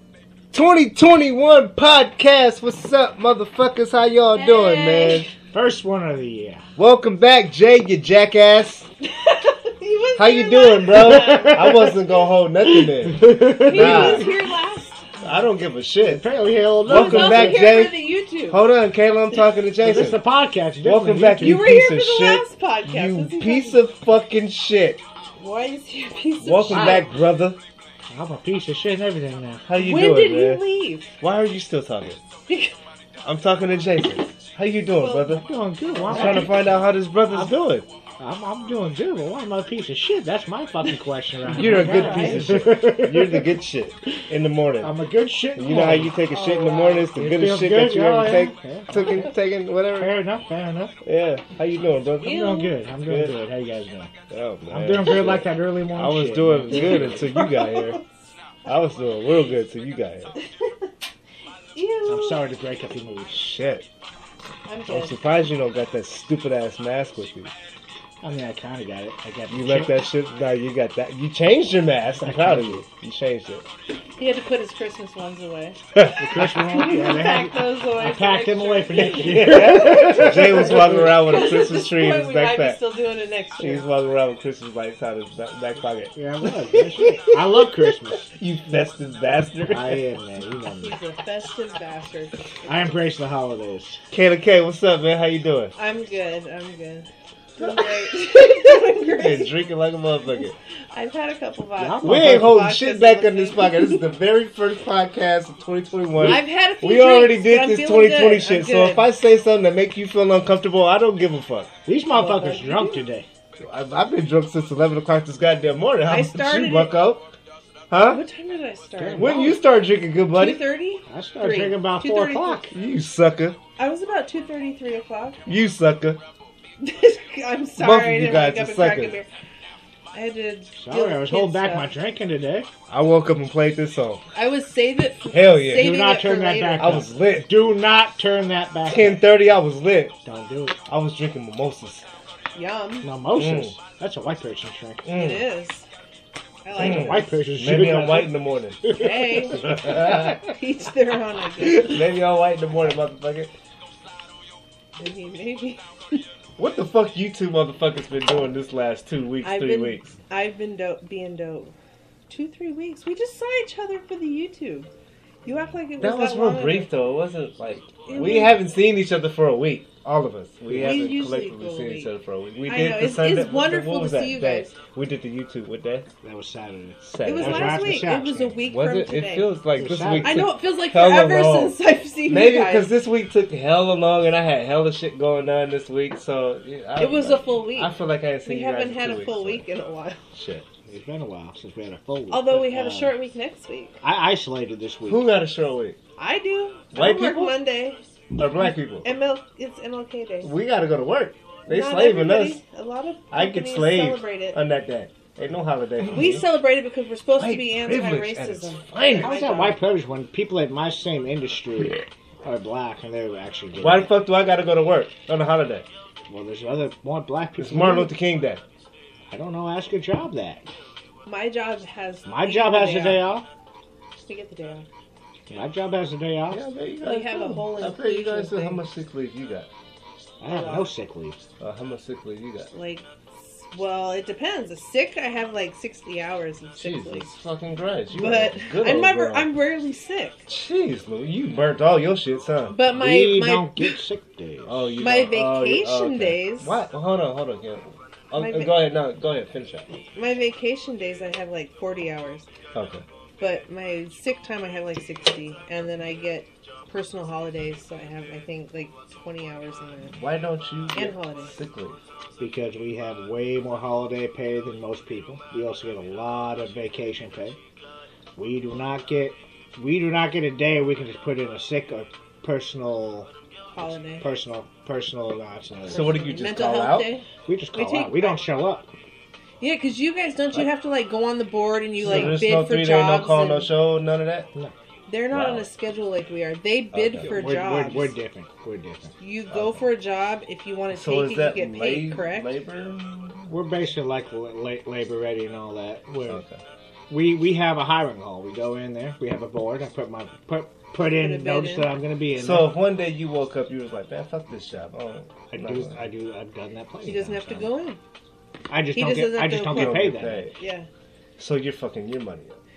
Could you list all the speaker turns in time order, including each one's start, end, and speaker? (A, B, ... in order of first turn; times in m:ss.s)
0:00.5-0:05.3 A
0:04.3-0:05.3 B
0:05.5-0:06.7 C
0:06.8-0:08.9 A
0:09.0-0:11.9 B
0:10.2-0:14.3 A
0:11.0-0:12.0 C
0:12.6-0:14.3 C
0:13.5-0:15.2 B
0:15.2-0:16.3 A
0:16.0-0:17.8 C
0:16.8-0:20.2 A
0:16.9-0:18.6 B
0:19.8-0:21.7 C
0:20.8-0:25.0 A
0:21.4-0:23.8 B
0:25.4-0:27.1 B
0:26.4-0:27.6 A
0:26.7-0:27.0 C
0:28.1-0:29.7 C
0:29.7-0:30.6 A
0:29.8-0:31.1 B
0:31.2-0:32.2 A
0:32.5-0:32.8 B
0:33.2-0:35.5 A
0:35.2-0:36.6 C
0:36.0-0:36.6 B
0:36.1-0:37.9 A
0:37.3-0:37.6 C
0:38.2-0:43.5 C
0:41.4-0:45.0 A
0:41.6-0:42.6 B
0:44.8-0:46.2 C
0:45.6-0:50.2 A
0:46.3-0:47.1 B
0:47.1-0:49.3 C
0:50.0-0:51.0 C
0:51.0-0:53.4 A
0:52.2-0:52.7 B
0:52.2-0:54.1 C
0:54.3-0:58.0 A
0:54.7-0:57.3 C
0:56.7-0:58.0 B
0:58.6-1:00.3 A
1:00.4-1:00.7 B
1:01.8-1:02.4 B
1:02.1-1:03.3 C
1:03.3-1:03.9 A
1:04.7-1:05.2 B
1:04.9-1:07.5 A
1:08.2-1:10.0 C
1:09.5-1:13.6 A
1:12.3-1:12.8 C
1:14.2-1:15.8 B
1:16.0-1:16.4 A
1:16.0-1:21.1 C
1:16.4-1:23.9 B
1:19.0-1:22.8 A
1:23.6-1:26.1 A
1:26.2-1:28.3 C
1:27.0-1:27.4 A
1:28.3-1:30.0 A
1:29.7-1:31.0 C
1:30.8-1:32.7 B
1:32.7-1:34.0 C
1:34.1-1:35.7 A
1:35.8-1:39.5 B
1:37.6-1:40.6 A
1:40.4-1:44.0 B
1:41.8-1:42.6 C
1:42.0-1:51.7 A
1:46.2-1:49.0 B
1:51.9-1:53.3 C
1:52.1-1:53.0 B
1:53.6-1:57.3 A
1:56.1-1:57.0 B
1:57.9-1:58.2 A
1:58.0-1:59.6 B
1:59.0-1:59.6 C
1:59.2-2:00.6 A
2:00.3-2:02.7 B
2:01.1-2:02.8 C
2:02.7-2:03.6 A
2:03.8-2:05.4 B
2:05.5-2:06.2 A
2:06.8-2:09.3 B
2:07.8-2:09.2 A
2:10.1-2:11.9 B
2:10.8-2:12.7 C
2:12.9-2:14.2 A
2:14.4-2:17.0 B
2:15.3-2:15.9 A
2:15.7-2:19.2 C
2:16.8-2:17.6 A
2:18.9-2:20.2 A
2:20.2-2:20.8 C
2:20.9-2:22.1 A
2:22.6-2:23.1 B
2:23.0-2:25.1 C
2:23.4-2:23.8 A
2:25.0-2:25.5 A
2:25.1-2:25.9 B
2:26.6-2:27.3 B
2:26.8-2:29.3 C
2:26.8-2:29.0 A
2:28.9-2:32.0 B
2:29.5-2:30.4 A
2:31.6-2:33.5 A
2:35.0-2:36.2 B
2:36.6-2:40.2 A
2:39.4-2:41.7 B
2:42.3-2:44.9 B
2:45.4-2:46.9 B
2:46.0-2:56.1 A
2:48.0-2:48.7 B
2:50.7-2:51.0 C
2:50.8-2:52.1 B
2:52.7-2:54.7 B
2:56.2-2:58.6 C
2:57.0-3:09.6 A
2:57.2-2:59.5 B
2:59.8-3:00.5 C
3:00.2-3:02.9 B
3:07.0-3:10.2 B
3:10.3-3:10.7 A
3:10.9-3:13.2 C
3:12.3-3:14.0 B
3:14.0-3:15.3 C
3:15.1-3:16.0 A
3:16.2-3:18.0 B
3:16.9-3:17.6 A
3:18.4-3:19.1 A
3:19.0-3:20.5 B
3:20.4-3:22.6 A
3:21.7-3:24.6 B
3:23.3-3:26.5 A
3:26.0-3:29.8 B
3:27.4-3:29.3 A
3:29.2-3:34.1 C
3:33.8-3:35.9 A
3:36.3-3:38.1 C
3:37.6-3:38.6 A
3:39.3-3:40.6 C
3:41.3-3:43.3 B
3:42.3-3:43.5 C
3:44.3-3:44.9 B
3:45.5-3:46.6 C
3:46.5-3:49.7 A
3:47.0-3:48.8 B
3:50.4-3:51.4 C
3:50.5-3:50.9 B
3:51.6-3:52.7 A
3:52.7-3:57.3 B
3:56.8-3:59.5 A
3:58.2-4:00.4 B
4:00.5-4:02.8 A
4:02.7-4:04.0 B
4:02.9-4:05.0 C
4:04.7-4:09.9 A
4:05.0-4:06.8 B
4:08.4-4:08.8 B
4:10.2-4:12.5 B
4:12.7-4:13.0 A
4:13.4-4:20.2 B
4:20.1-4:22.0 A
4:20.9-4:21.5 B
4:22.4-4:27.6 C
4:28.4-4:33.3 C
4:33.7-4:34.2 B
4:34.2-4:36.1 C
4:35.9-4:38.4 B
4:35.9-4:37.1 A
4:37.4-4:38.9 C
4:39.6-4:43.7 B
4:42.0-4:44.5 A
4:42.1-4:42.4 C
4:45.1-4:48.1 B
4:45.3-4:45.7 A
4:46.9-4:47.5 A
4:47.3-4:49.1 C
4:49.2-4:52.5 B
4:49.5-4:49.9 A
4:50.9-4:53.5 A
4:53.5-4:56.4 C
4:56.3-4:56.6 A
4:57.1-5:02.7 C
5:01.1-5:01.9 B
5:02.4-5:06.0 A
5:05.5-5:07.7 C
5:07.1-5:08.0 B
5:08.7-5:10.5 C
5:08.9-5:10.9 B
5:09.7-5:10.5 A
5:11.4-5:12.6 A